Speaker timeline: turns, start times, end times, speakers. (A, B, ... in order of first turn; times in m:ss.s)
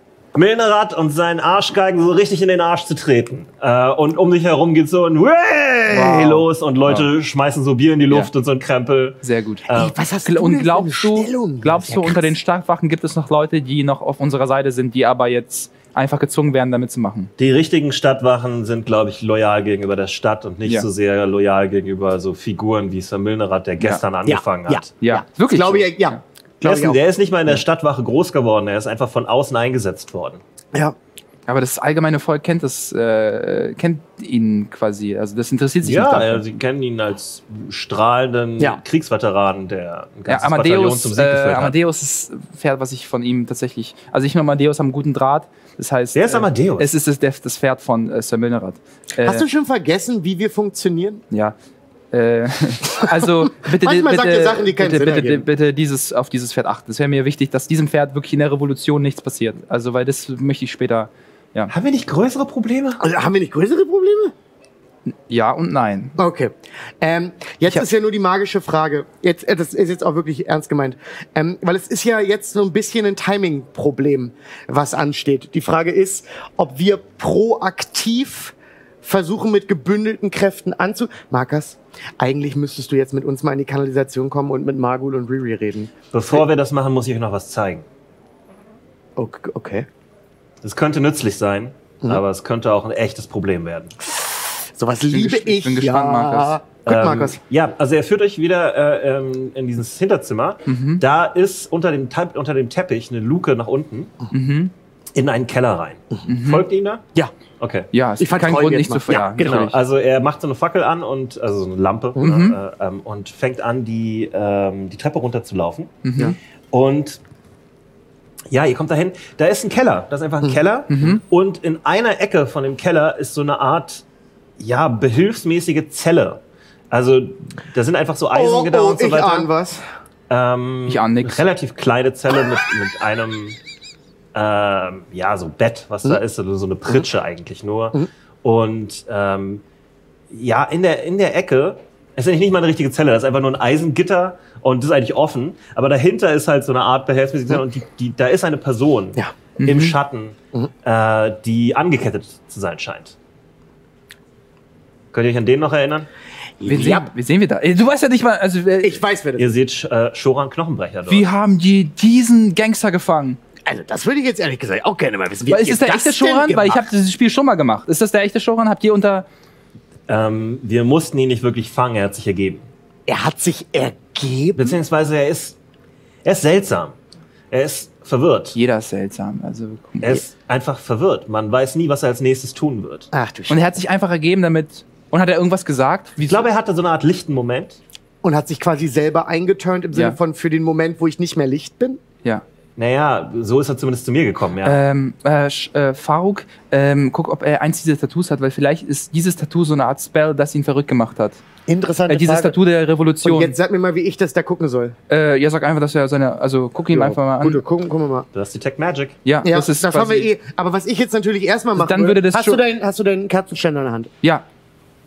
0:00.4-0:10.0 A
0:05.9-0:07.1 B
0:09.2-0:09.7 B
0:09.7-0:12.3 C
0:10.2-0:17.3 B
0:17.4-0:24.9 A
0:24.3-0:27.0 C
0:25.0-0:26.2 B
0:26.6-0:30.4 A
0:31.5-0:36.4 B
0:35.8-0:41.8 A
0:40.3-0:49.5 B
0:46.2-0:46.9 A
0:49.2-0:51.2 C
0:52.1-1:01.7 B
0:53.0-0:55.5 C
1:01.7-1:03.0 A
1:03.0-1:04.3 C
1:05.1-1:06.2 B
1:06.2-1:25.9 C
1:26.1-1:27.9 A
1:29.2-1:29.9 C
1:30.6-1:33.9 A
1:34.2-1:37.4 C
1:35.1-1:36.6 B
1:36.9-1:44.1 A
1:40.7-1:41.0 B
1:44.3-1:44.7 B
1:45.2-1:47.0 A
1:46.3-1:46.6 B
1:47.6-1:47.9 A
1:47.9-1:49.8 B
1:48.2-1:49.7 C
1:49.2-1:56.0 A
1:52.2-1:52.6 B
1:56.0-1:56.4 B
1:56.7-1:57.2 A
1:58.5-2:04.0 A
2:00.9-2:01.2 B
2:04.6-2:09.5 A
2:08.3-2:09.8 C
2:10.3-2:13.6 A
2:10.9-2:11.4 B
2:14.3-2:19.6 A
2:20.3-2:33.2 A
2:29.6-2:30.0 B
2:35.1-2:36.1 A
2:36.6-2:37.1 C
2:36.7-2:39.0 B
2:38.8-2:39.5 C
2:39.4-2:41.3 A
2:41.1-2:43.4 B
2:43.7-2:46.8 C
2:45.5-2:49.3 B
2:50.1-2:52.7 A
2:53.1-2:54.8 C
2:54.6-2:55.6 A
2:56.2-2:57.0 A
2:57.5-2:58.6 A
2:58.6-3:00.2 B
3:00.0-3:03.1 A
3:03.1-3:03.6 C
3:03.5-3:06.5 B
3:06.3-3:07.8 A
3:08.2-3:12.0 C
3:12.8-3:14.8 A
3:14.6-3:21.4 B
3:21.7-3:22.6 C
3:22.1-3:23.6 B
3:23.2-3:25.0 C
3:25.1-3:27.6 B
3:26.9-3:28.3 C
3:28.3-3:29.2 A
3:29.2-3:30.3 B
3:29.4-3:34.1 C
3:31.8-3:32.6 B